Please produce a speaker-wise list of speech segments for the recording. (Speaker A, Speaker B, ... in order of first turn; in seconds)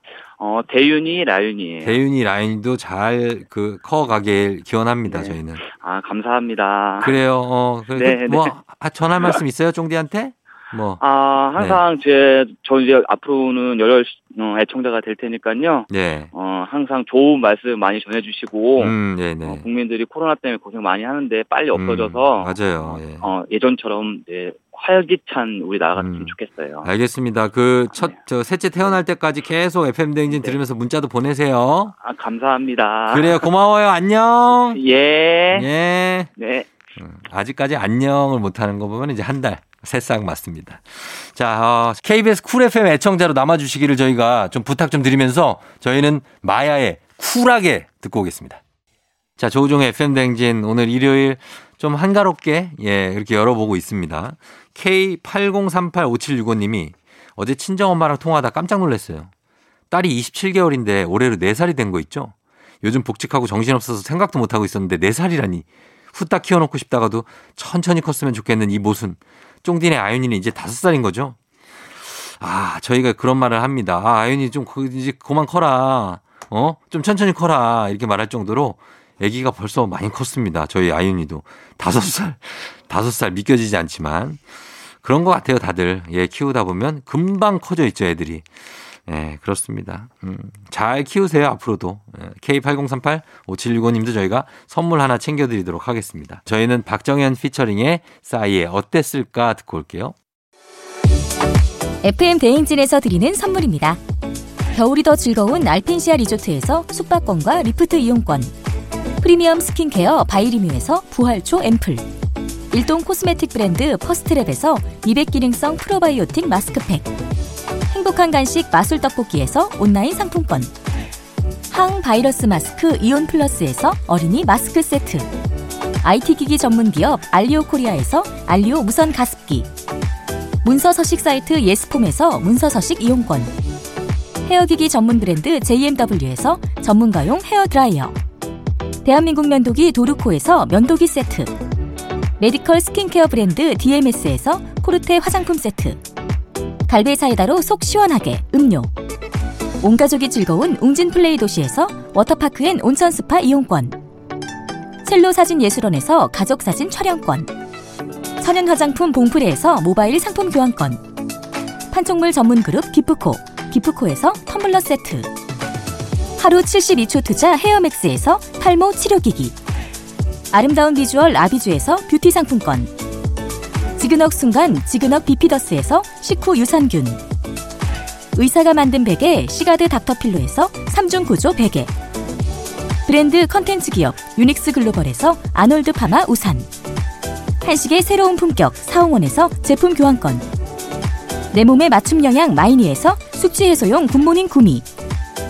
Speaker A: 0.4-2.0, 5.1-7.2, 7.9-8.5, 11.0-26.9, 30.3-30.6, 32.0-33.5, 34.7-35.7, 36.4-36.7
Speaker B: 1.8-5.6, 7.0-11.0, 15.9-16.3, 18.8-19.6, 21.7-23.3, 25.9-31.9, 33.1-34.8, 35.5-36.3, 37.0-48.6, 49.4-59.3, 59.9-71.4, 72.1-84.4, 85.0-88.5, 89.0-100.1
Speaker C: 102.0-104.0, 104.7-108.5, 109.2-112.1, 112.7-117.1, 117.9-120.7, 121.7-125.3, 126.0-129.7, 130.6-133.5, 134.4-138.1, 139.0-141.5, 142.4-146.0, 146.9-148.9, 149.8-153.9, 155.0-157.5, 158.4-161.0, 161.9-165.3, 166.4-169.6, 170.5-172.9, 174.0-177.2, 178.3-181.9, 183.1-186.7, 187.6-190.4, 191.5-194.8